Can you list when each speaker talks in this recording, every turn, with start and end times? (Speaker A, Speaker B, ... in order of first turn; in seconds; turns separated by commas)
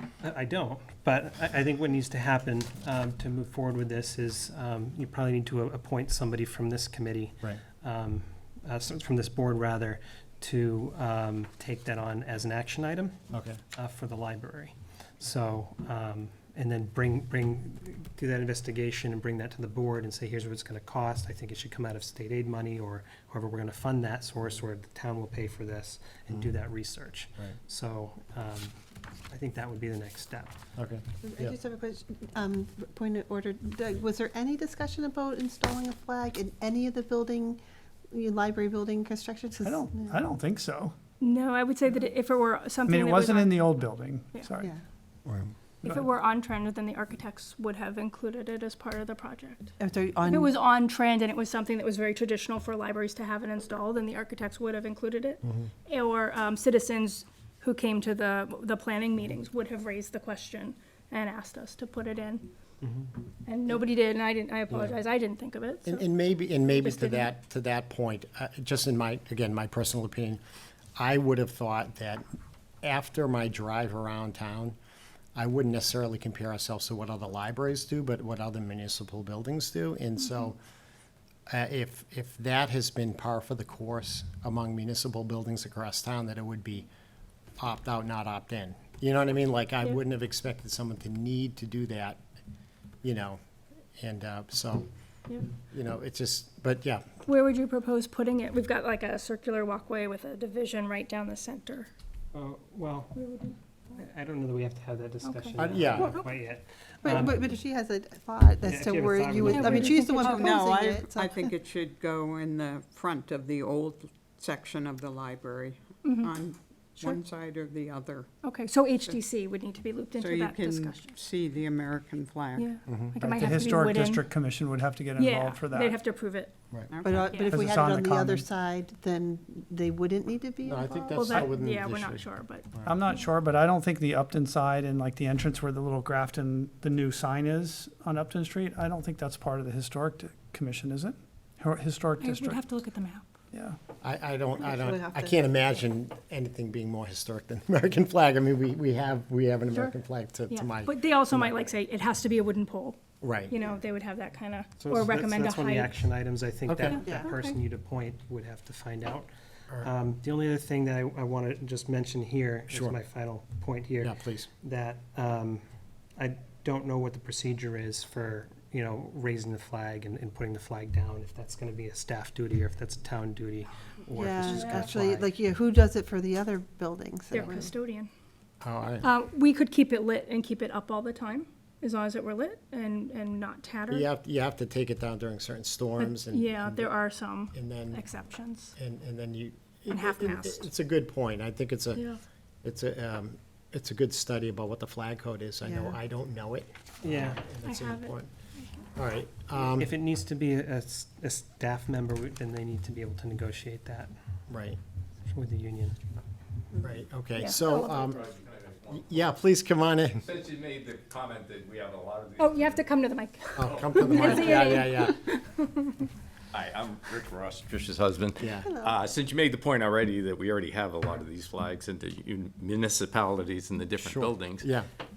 Speaker A: 0.2-13.2, Speaker B: 13.3-13.6, Speaker A: 13.7-30.6, Speaker B: 30.8-31.6, Speaker C: 31.2-37.6, Speaker C: 38.1-40.1, Speaker D: 39.6-41.0, Speaker E: 41.2-43.5, Speaker D: 42.8-44.7, Speaker B: 45.2-45.5, Speaker E: 45.8-49.7, Speaker C: 49.8-50.5, Speaker E: 50.3-62.5, Speaker A: 62.8-63.1, Speaker E: 63.5-66.0, Speaker B: 64.7-65.0, Speaker B: 65.8-70.4, Speaker E: 66.8-67.2, Speaker B: 71.0-72.2, Speaker B: 72.8-74.7, Speaker B: 75.3-80.6, Speaker B: 81.5-86.9, Speaker B: 87.6-92.2, Speaker B: 93.0-93.4, Speaker B: 94.0-94.8, Speaker B: 95.7-97.0, Speaker E: 97.3-101.9, Speaker A: 102.3-103.2, Speaker E: 103.2-103.5, Speaker A: 103.9-107.5, Speaker B: 105.6-106.2, Speaker C: 105.9-106.3, Speaker C: 107.0-111.5, Speaker A: 108.6-110.0, Speaker F: 109.9-118.3, Speaker E: 116.0-116.4, Speaker E: 118.4-121.0, Speaker F: 120.1-122.8, Speaker E: 122.6-124.2, Speaker B: 122.9-123.2, Speaker D: 123.2-126.0, Speaker E: 125.2-126.5, Speaker F: 126.9-127.5, Speaker C: 127.0-131.3, Speaker D: 127.5-128.4, Speaker B: 130.6-132.9, Speaker E: 131.2-132.7, Speaker D: 132.8-142.6, Speaker E: 142.2-143.2, Speaker D: 143.5-143.8, Speaker B: 144.0-151.7, Speaker C: 144.6-145.3, Speaker E: 150.5-155.9, Speaker B: 153.2-153.5, Speaker A: 154.8-165.6, Speaker B: 156.7-157.0, Speaker C: 157.0-157.3, Speaker B: 162.7-162.9, Speaker B: 164.0-164.5, Speaker A: 166.2-175.3, Speaker C: 174.1-177.7, Speaker E: 177.3-178.1, Speaker B: 178.6-179.1, Speaker E: 179.0-184.0, Speaker B: 183.9-187.0, Speaker E: 186.0-188.7, Speaker B: 187.5-188.0, Speaker B: 188.8-192.1, Speaker E: 189.9-190.7, Speaker B: 192.6-198.3, Speaker C: 195.6-196.0, Speaker A: 197.0-197.4, Speaker E: 197.7-198.6, Speaker B: 198.9-199.9, Speaker A: 199.8-204.1, Speaker B: 204.5-204.8, Speaker A: 205.3-205.9, Speaker B: 206.8-208.2, Speaker E: 207.3-207.9, Speaker G: 207.9-209.3, Speaker B: 208.9-210.2, Speaker G: 210.2-213.0, Speaker E: 212.4-215.9, Speaker B: 213.6-215.2, Speaker G: 213.6-214.7, Speaker G: 216.5-224.7, Speaker B: 218.4-218.7, Speaker C: 218.7-219.0, Speaker B: 224.0-224.8